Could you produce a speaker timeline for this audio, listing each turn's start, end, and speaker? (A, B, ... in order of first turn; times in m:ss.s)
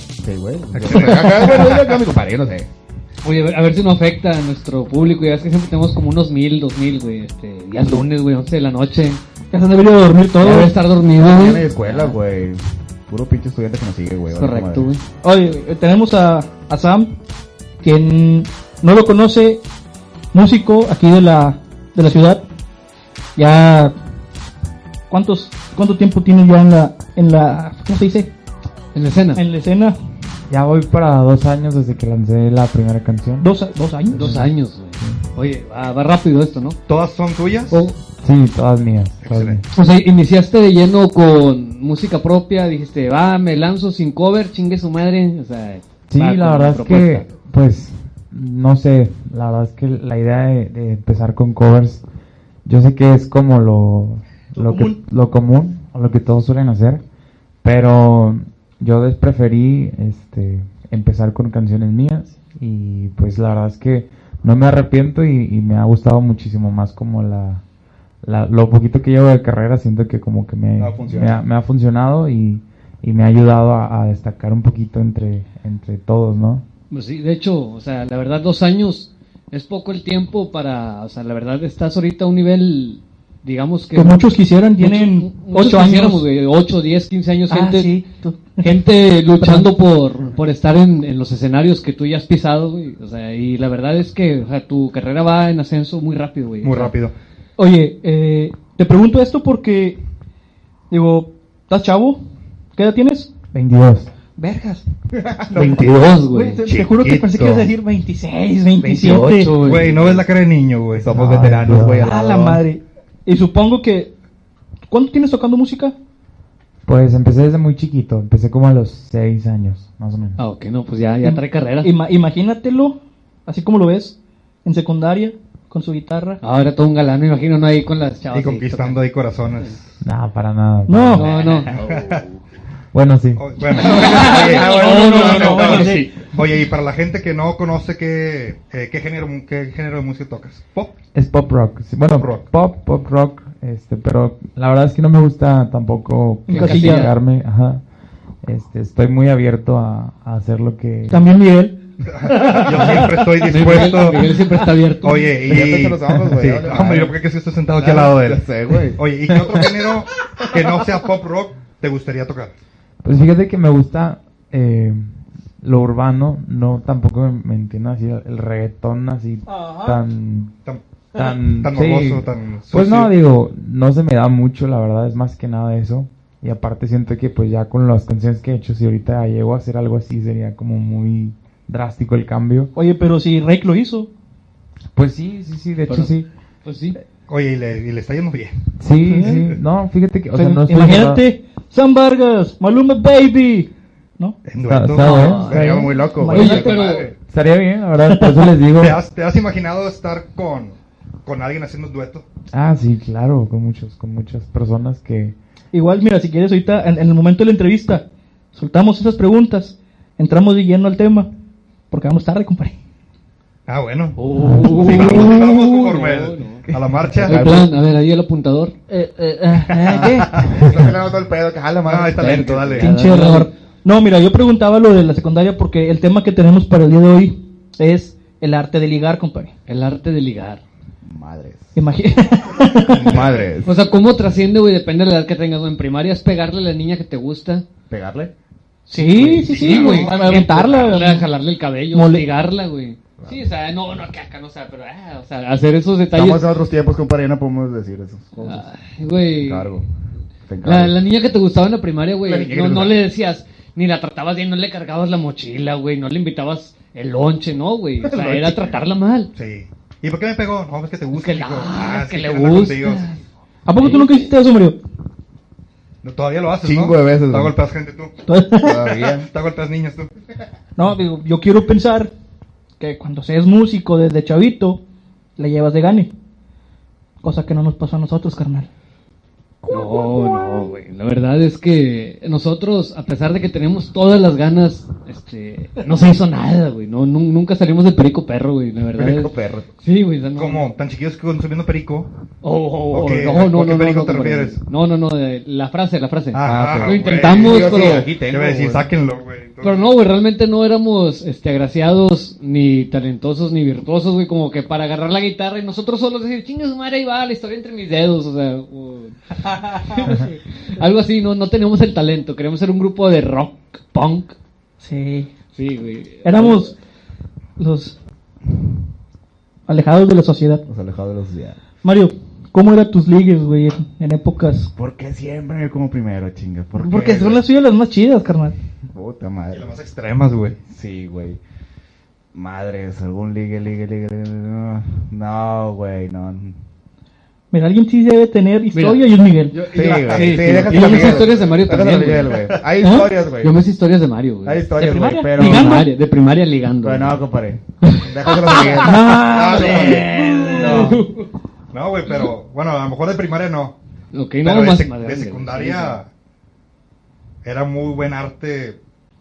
0:00.2-0:02.7 A
0:00.7-0:01.8 B
0:03.2-0:09.2 C
0:09.5-0:10.8 D
0:10.4-0:12.2 C
0:11.3-0:14.9 A
0:14.3-0:15.0 C
0:15.2-0:17.1 D
0:17.8-0:19.6 D
0:20.3-0:22.4 D
0:23.4-0:24.0 D
0:25.1-0:28.3 D
0:28.9-0:29.4 C
0:29.4-0:30.0 D
0:30.5-0:33.5 E
0:33.4-0:34.4 D
0:34.1-0:34.5 E
0:34.1-0:36.8 C
0:36.9-0:37.8 B
0:37.7-0:38.0 C
0:38.2-0:39.6 E
0:39.2-0:39.6 B
0:39.7-0:47.3 C
0:46.1-0:52.0 E
0:52.6-0:57.0 E
0:54.6-0:55.0 D
0:57.6-1:07.6 E
1:08.2-1:16.6 E
1:10.8-1:11.4 A
1:16.9-1:27.9 C
1:23.9-1:26.3 D
1:27.5-1:28.8 D
1:28.6-1:37.0 C
1:29.4-1:29.7 D
1:36.6-1:37.1 B
1:37.6-1:40.0 D
1:40.9-1:42.2 D
1:42.8-1:43.3 D
1:43.5-1:44.1 E
1:44.4-1:44.8 D
1:45.1-1:46.0 A
1:45.5-1:46.6 C
1:46.2-1:49.6 D
1:46.7-1:47.7 B
1:48.8-1:50.2 C
1:49.6-1:51.9 B
1:51.0-1:52.6 A
1:51.1-1:52.1 E
1:52.0-1:54.1 D
1:54.9-1:55.9 D
1:56.8-2:00.4 E
2:00.4-2:01.9 C
2:01.2-2:06.4 D
2:06.4-2:09.0 C
2:08.3-2:10.0 B
2:10.0-2:11.3 E
2:10.9-2:11.3 D
2:11.1-2:11.8 C
2:11.4-2:12.2 B
2:11.7-2:12.4 A
2:12.9-2:13.5 E
2:13.4-2:20.9 B
2:13.7-2:16.2 D
2:14.2-2:16.1 C
2:21.1-2:27.8 E
2:22.2-2:22.4 B
2:26.5-2:27.1 C
2:26.5-2:27.1 D
2:28.4-2:31.3 E
2:31.1-2:33.2 D
2:32.1-2:34.3 B
2:33.5-2:35.4 C
2:35.0-2:42.5 B
2:35.4-2:37.2 A
2:37.8-2:39.0 A
2:43.0-2:50.5 E
2:49.5-2:50.0 D
2:51.2-3:02.7 E
2:51.4-2:53.1 B
3:02.8-3:04.1 D
3:04.9-3:06.3 E
3:05.9-3:06.1 C
3:06.6-3:07.0 C
3:07.3-3:08.7 B
3:08.8-3:11.2 E
3:09.0-3:09.4 D
3:09.2-3:09.5 B
3:10.4-3:14.4 D
3:14.5-3:15.4 B
3:14.6-3:15.9 E
3:15.0-3:15.7 C
3:15.2-3:17.0 D
3:15.4-3:17.1 A
3:16.3-3:17.1 C
3:17.3-3:19.0 E
3:18.1-3:18.5 D
3:18.8-3:22.2 B
3:22.5-3:25.4 E
3:25.7-3:31.3 D
3:31.9-3:32.8 D
3:33.7-3:34.2 B
3:34.2-3:36.6 C
3:34.4-3:35.0 E
3:34.8-3:35.2 D
3:34.8-3:37.6 B
3:37.2-3:38.7 C
3:37.2-3:37.7 A
3:38.9-3:40.6 D
3:39.7-3:40.9 B
3:39.9-3:42.9 A
3:41.8-3:42.9 B
3:42.2-3:43.5 C
3:42.8-3:49.5 D
3:49.7-3:50.6 C
3:51.0-3:51.8 A
3:51.8-3:53.3 D
3:52.9-3:53.5 B
3:52.9-3:53.8 A
3:53.6-3:57.6 C
3:57.9-3:58.3 A
3:58.9-4:01.3 D
3:59.0-4:06.5 C
3:59.3-4:00.4 B
4:01.9-4:02.3 D
4:03.2-4:03.5 A
4:06.1-4:08.6 A
4:08.4-4:09.7 C
4:09.4-4:09.9 A
4:10.5-4:11.0 A
4:10.6-4:19.3 C
4:12.2-4:13.0 A
4:18.1-4:18.7 D
4:19.4-4:23.1 B
4:21.1-4:23.2 C
4:23.7-4:24.8 D
4:23.8-4:24.3 C
4:26.0-4:28.1 B
4:26.6-4:27.6 A
4:28.3-4:29.1 D
4:28.6-4:29.3 A
4:29.2-4:30.1 B
4:30.8-4:32.1 D
4:32.8-4:34.8 D
4:35.4-4:36.1 D
4:37.2-4:38.7 D
4:39.6-4:40.6 A
4:39.7-4:50.7 C
4:49.0-4:49.7 A
4:50.4-4:52.1 B
4:52.4-4:58.1 C
4:52.9-4:54.6 B
4:56.3-4:59.9 B
4:56.4-4:58.9 A
4:59.6-5:14.4 C
5:14.8-5:15.3 D
5:15.6-5:16.7 C
5:16.2-5:16.7 D
5:17.6-5:17.9 D
5:19.7-5:20.6 D
5:20.7-5:21.6 A
5:21.8-5:24.7 D
5:24.8-5:27.4 A
5:26.8-5:28.6 D
5:28.9-5:29.7 A
5:29.5-5:30.6 B
5:30.7-5:31.4 A
5:32.3-5:36.6 A
5:37.5-5:39.7 D
5:38.7-5:39.1 C
5:39.5-5:41.6 B
5:39.7-5:43.6 A
5:40.0-5:42.4 C
5:40.8-5:41.2 D
5:42.3-5:42.6 B
5:42.8-5:43.1 D
5:43.4-5:44.7 C
5:44.4-5:45.8 A
5:44.8-5:45.9 D
5:45.3-5:47.2 C
5:46.8-5:51.0 A
5:47.8-5:51.0 D
5:49.2-5:51.3 C
5:51.7-5:53.8 B
5:54.1-5:56.0 C
5:54.4-5:56.1 B
5:57.4-5:58.8 B